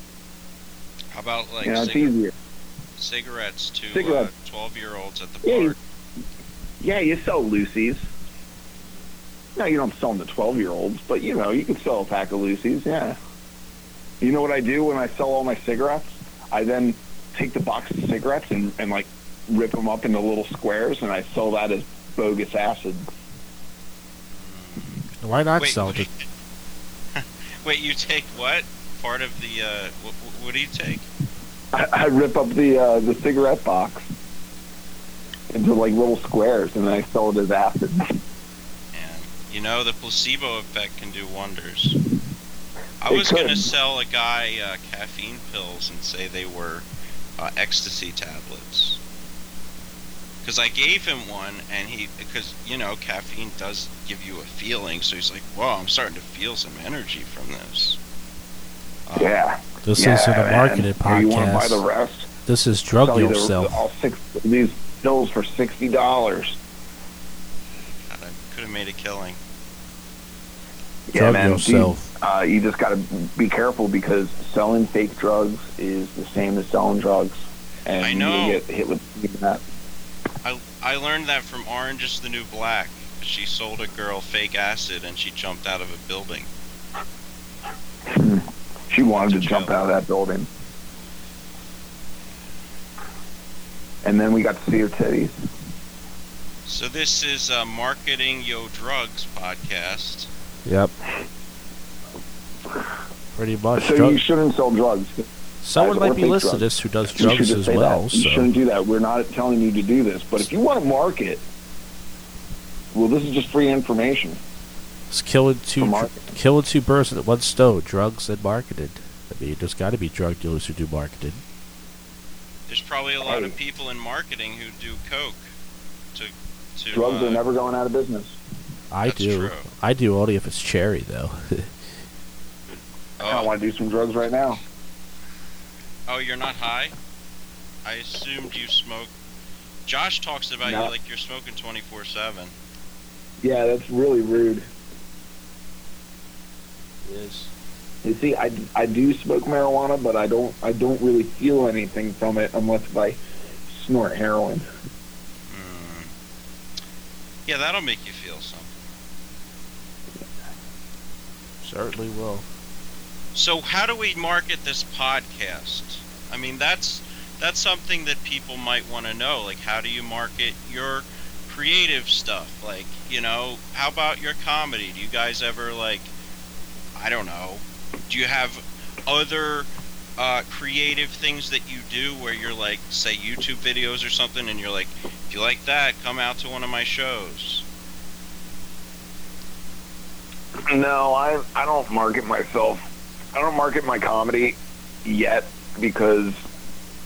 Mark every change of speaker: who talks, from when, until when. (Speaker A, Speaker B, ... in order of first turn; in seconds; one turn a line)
Speaker A: 1.1-2.1
Speaker B: 1.6-2.3
Speaker A: 3.0-5.8
Speaker B: 3.9-4.3
Speaker B: 5.4-5.8
Speaker B: 6.8-8.0
Speaker B: 9.6-13.2
Speaker B: 14.2-23.1
Speaker A: 24.3-25.1
Speaker C: 25.2-26.1
Speaker A: 25.6-26.2
Speaker A: 27.1-31.1
Speaker B: 31.7-34.1
Speaker B: 35.5-38.0
Speaker A: 38.9-42.0
Speaker A: 43.0-49.0
Speaker B: 43.1-43.7
Speaker A: 50.4-58.0
Speaker A: 59.1-59.4
Speaker B: 59.1-62.3
Speaker C: 59.8-61.8
Speaker C: 62.5-63.8
Speaker B: 63.0-66.6
Speaker A: 68.1-69.4
Speaker B: 71.1-79.6
Speaker C: 71.1-72.1
Speaker A: 78.0-78.6
Speaker A: 80.4-86.5
Speaker B: 88.1-90.5
Speaker A: 88.9-89.7
Speaker B: 94.0-95.4
Speaker A: 96.6-100.3
Speaker C: 100.6-100.9
Speaker C: 103.3-104.2
Speaker B: 103.8-105.2
Speaker C: 105.6-108.5
Speaker B: 105.8-111.4
Speaker B: 112.9-114.4
Speaker C: 115.1-121.4
Speaker B: 115.8-116.3
Speaker A: 122.7-125.5
Speaker B: 123.2-123.5
Speaker A: 126.1-127.4
Speaker B: 126.9-128.4
Speaker C: 128.9-131.8
Speaker A: 129.0-129.6
Speaker A: 133.2-133.5
Speaker B: 133.2-134.6
Speaker A: 136.1-136.9
Speaker A: 137.8-139.1
Speaker A: 139.8-142.5
Speaker B: 140.6-140.9
Speaker B: 143.4-144.7
Speaker C: 147.0-147.5
Speaker B: 148.0-154.7
Speaker A: 155.5-156.1
Speaker A: 157.4-158.8
Speaker C: 161.6-162.5
Speaker A: 163.3-176.1
Speaker A: 176.9-187.7
Speaker B: 190.7-192.8
Speaker B: 193.3-196.3